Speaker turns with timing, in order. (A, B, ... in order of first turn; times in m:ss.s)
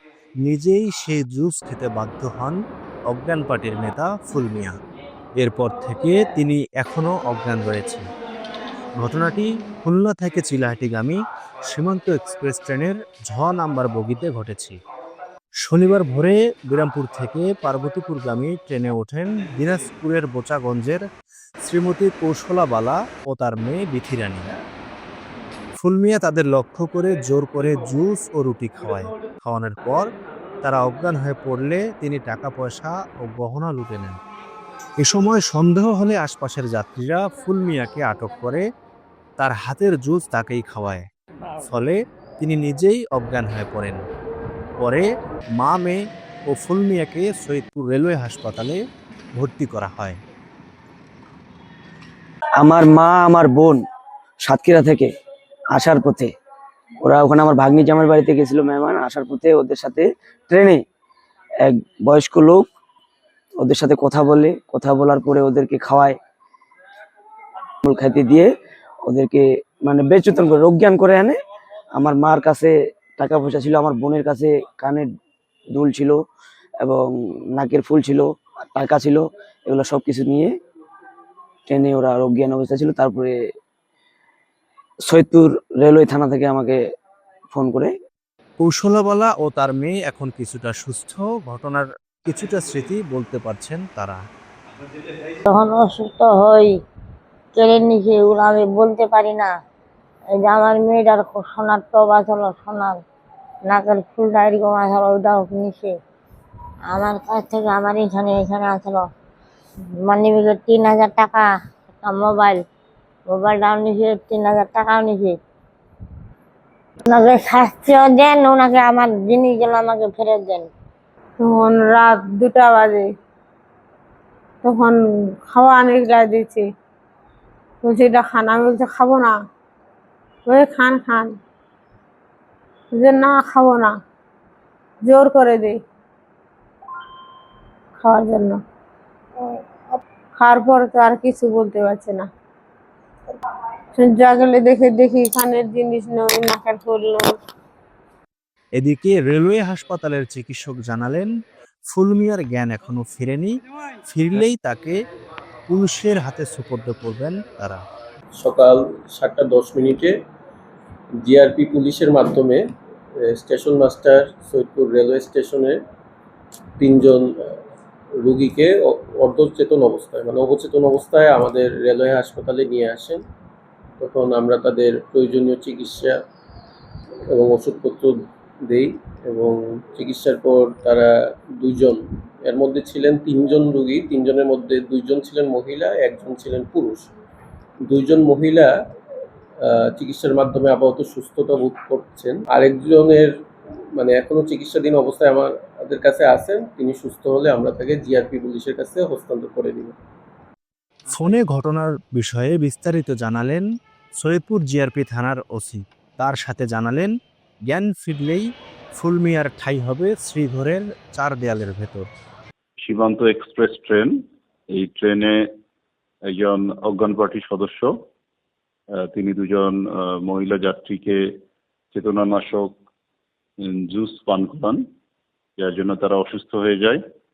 0:00.4-0:04.7 A
0:05.4-0:08.1 A
0:09.0-0:14.8 A
0:15.6-0:21.0 A
0:21.6-0:24.5 A
0:25.8-0:30.1 A
0:30.6-0:34.2 A
0:35.0-0:38.6 A
0:39.4-0:41.1 A
0:41.6-0:44.0 A
0:44.8-0:48.8 A
0:49.3-0:50.2 A
0:52.6-0:53.8 B
0:54.4-0:55.1 B
0:55.7-0:56.3 B
0:57.0-1:00.8 B
1:01.6-1:02.7 B
1:03.6-1:06.2 B
1:07.8-1:08.5 B
1:09.0-1:11.4 B
1:11.9-1:15.1 B
1:15.7-1:16.2 B
1:16.8-1:20.5 B
1:21.7-1:23.3 B
1:25.1-1:26.8 B
1:27.5-1:27.9 B
1:28.6-1:34.2 A
1:35.5-1:36.7 C
1:37.5-1:39.5 C
1:40.4-1:43.0 C
1:43.7-1:45.9 C
1:46.9-1:49.1 C
1:50.0-1:51.5 C
1:52.0-1:52.6 C
1:53.3-1:55.4 C
1:57.1-2:00.7 C
2:01.4-2:03.1 D
2:04.6-2:06.6 D
2:07.8-2:09.3 D
2:10.4-2:11.3 D
2:12.9-2:13.9 D
2:15.0-2:15.8 D
2:18.0-2:18.6 D
2:20.4-2:22.3 D
2:24.0-2:27.2 D
2:28.8-2:31.3 A
2:31.9-2:33.6 A
2:34.1-2:35.0 A
2:35.7-2:37.8 A
2:38.4-2:40.2 E
2:41.2-2:42.7 E
2:43.2-2:45.8 E
2:46.8-2:47.5 E
2:48.2-2:53.2 E
2:54.0-2:56.2 E
2:57.3-3:07.1 E
3:07.8-3:08.8 E
3:09.6-3:13.3 E
3:13.9-3:20.0 E
3:21.1-3:23.6 A
3:24.2-3:27.1 A
3:27.6-3:32.1 A
3:32.8-3:34.1 F
3:34.7-3:35.4 F
3:36.3-3:37.9 F
3:39.1-3:41.2 F
3:41.9-3:42.7 F
3:43.7-3:44.8 F
3:45.6-3:47.0 F